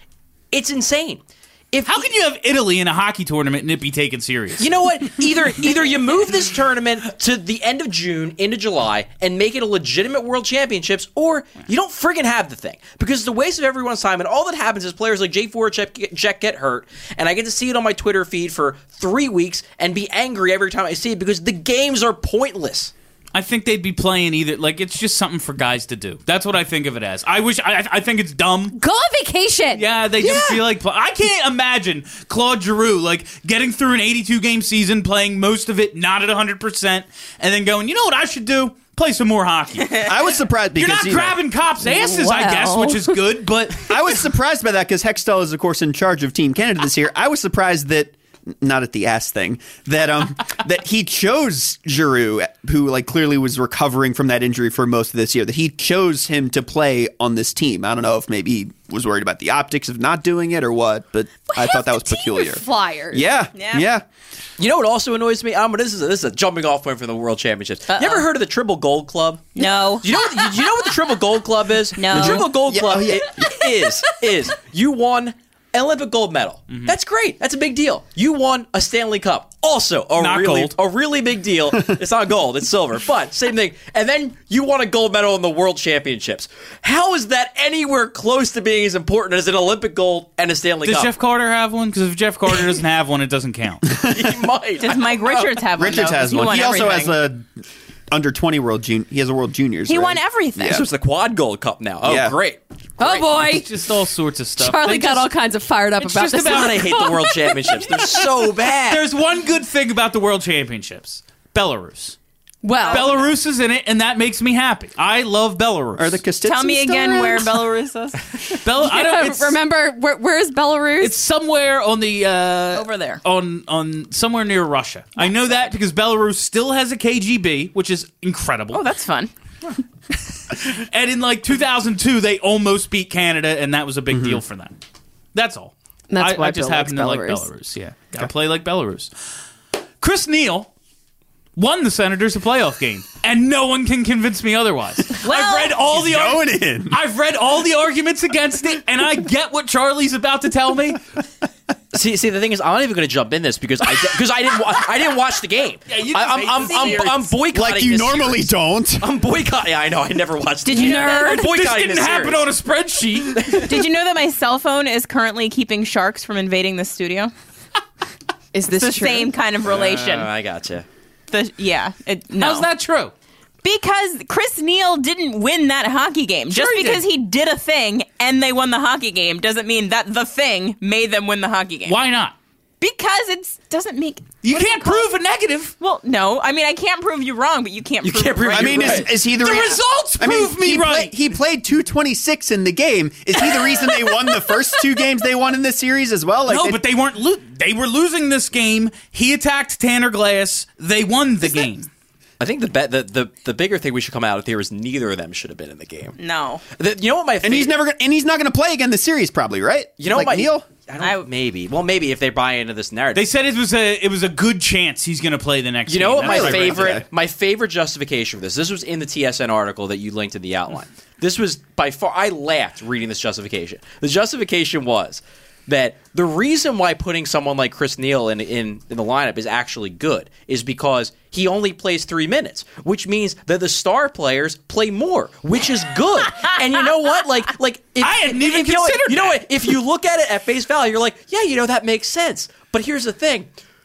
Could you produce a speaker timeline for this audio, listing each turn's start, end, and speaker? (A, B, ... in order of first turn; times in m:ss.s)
0:00.5-0:02.1 A
0:01.9-0:05.1 B
0:04.6-0:22.9 A
0:23.3-0:28.8 B
0:28.7-0:30.6 C
0:29.8-0:40.1 B
0:40.0-0:41.4 D
0:40.8-0:44.0 B
0:42.0-0:43.0 C
0:43.9-1:04.0 D
1:01.5-1:03.3 C
1:03.6-1:03.9 E
1:04.6-1:31.1 A
1:07.9-1:08.3 E
1:09.6-1:10.7 E
1:12.0-1:12.6 E
1:12.1-1:13.5 D
1:20.2-1:20.8 B
1:30.8-1:33.9 B
1:33.9-1:35.6 A
1:34.8-1:37.2 E
1:35.8-1:37.5 D
1:38.1-1:40.8 D
1:39.9-1:40.8 E
1:40.6-1:43.2 A
1:42.0-1:42.4 D
1:43.0-1:43.7 C
1:43.3-1:45.3 B
1:44.6-1:47.1 C
1:46.0-1:47.0 B
1:46.3-1:49.0 A
1:48.8-1:52.2 B
1:52.6-1:53.1 C
1:52.8-1:53.2 E
1:52.8-1:56.2 B
1:56.0-1:57.6 D
1:56.4-1:58.2 E
1:58.6-1:59.6 B
1:58.8-2:01.1 C
2:01.0-2:08.8 B
2:02.7-2:03.2 E
2:08.7-2:09.3 E
2:10.5-2:14.8 B
2:14.1-2:14.4 D
2:15.3-2:19.1 B
2:16.1-2:17.5 C
2:20.0-2:20.7 B
2:21.6-2:31.0 B
2:25.3-2:25.7 E
2:25.9-2:27.0 D
2:31.9-2:38.4 A
2:35.9-2:37.4 B
2:37.5-2:39.1 D
2:39.0-2:42.5 A
2:40.7-2:41.5 E
2:40.7-2:41.0 C
2:40.7-2:43.7 B
2:43.3-2:43.8 A
2:43.7-2:47.3 E
2:48.5-2:49.3 C
2:48.7-2:50.3 E
2:49.6-2:50.9 A
2:51.3-2:52.7 E
2:52.4-2:53.1 B
2:53.6-3:02.0 E
2:56.5-2:57.0 B
3:01.9-3:02.4 B
3:02.8-3:05.1 E
3:04.4-3:05.8 B
3:05.8-3:09.8 E
3:08.0-3:09.1 A
3:08.5-3:16.8 D
3:09.2-3:11.1 B
3:16.5-3:21.9 B
3:22.4-3:26.2 A
3:26.2-3:26.6 E
3:26.7-3:27.7 A
3:27.4-3:30.7 D
3:30.0-3:33.2 A
3:31.0-3:31.3 E
3:33.2-3:36.9 B
3:35.9-4:03.5 A
3:36.2-3:37.0 D
3:58.0-3:59.8 B